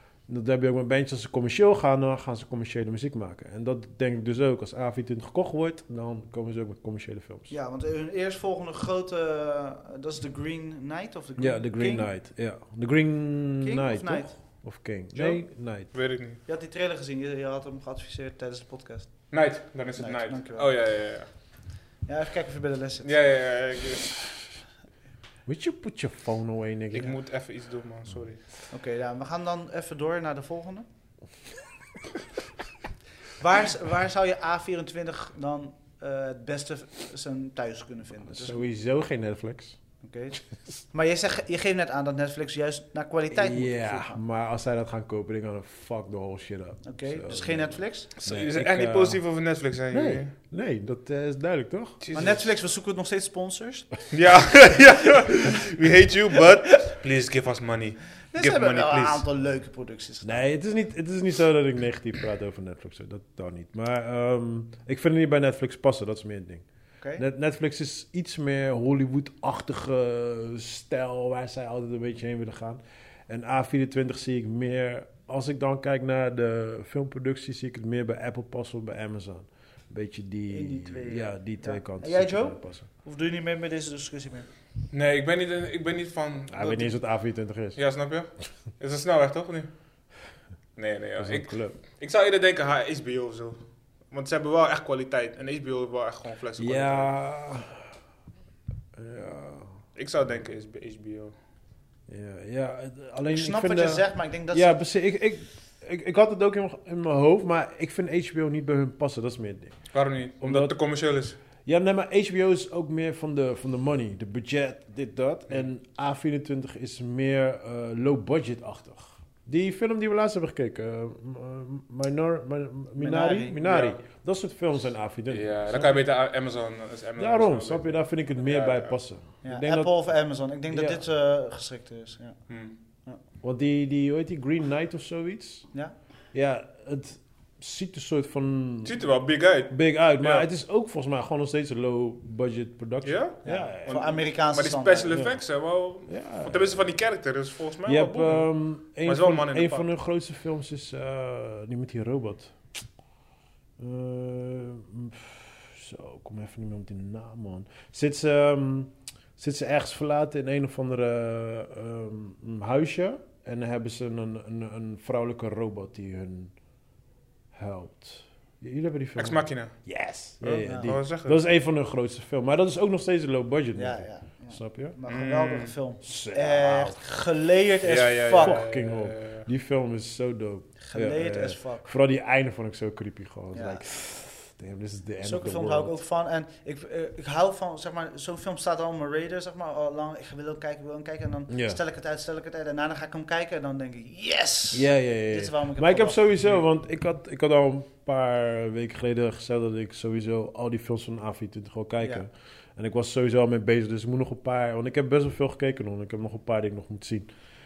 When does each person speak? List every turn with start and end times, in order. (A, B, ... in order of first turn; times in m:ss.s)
0:00.3-0:07.5 A
0:07.5-0:12.1 B
0:11.4-0:15.9 A
0:13.6-0:14.4 B
0:15.1-0:16.4 C
0:16.4-0:19.4 B
0:19.3-0:21.3 C
0:20.0-0:20.7 B
0:22.0-0:23.1 B
0:23.0-0:24.2 C
0:25.4-0:27.2 A
0:26.9-0:28.4 C
0:28.7-0:30.8 B
0:33.4-0:38.6 B
0:38.3-0:39.8 A
0:40.0-0:44.2 B
0:43.3-0:49.2 A
0:46.8-0:48.1 B
0:48.2-0:50.3 C
0:49.9-0:52.0 A
0:52.0-0:52.5 C
0:52.1-0:54.0 B
0:54.1-0:59.2 C
0:58.3-1:00.4 B
1:00.2-1:06.6 A
1:07.2-1:22.9 A
1:20.5-1:24.5 B
1:24.9-1:26.9 C
1:26.5-1:27.8 A
1:27.8-1:29.7 C
1:30.8-1:37.1 C
1:31.2-1:31.8 A
1:36.6-1:37.9 A
1:39.0-1:39.8 A
1:40.0-1:41.4 C
1:42.1-1:49.9 A
1:43.3-1:44.8 B
1:49.9-1:51.4 C
1:50.4-1:50.7 A
1:51.6-2:06.0 A
2:03.0-2:03.6 B
2:03.6-2:04.0 C
2:05.3-2:09.0 C
2:07.2-2:09.9 A
2:09.4-2:12.5 B
2:10.7-2:11.0 A
2:12.5-2:12.7 C
2:13.4-2:15.7 A
2:16.3-2:19.0 A
2:18.8-2:20.5 C
2:19.7-2:24.0 A
2:23.0-2:29.9 C
2:23.4-2:25.2 B
2:25.1-2:25.4 A
2:26.0-2:26.8 A
2:27.8-2:32.6 A
2:33.8-2:46.5 A
2:47.5-2:54.9 A
2:49.2-2:51.4 C
2:50.6-2:50.9 B
2:53.8-2:58.6 B
2:55.1-2:55.7 C
2:56.0-2:57.0 A
2:57.8-2:59.4 C
2:58.4-3:05.9 A
3:00.8-3:01.8 B
3:03.5-3:03.8 B
3:05.2-3:16.2 B
3:11.5-3:11.8 A
3:14.7-3:27.3 A
3:22.0-3:22.2 B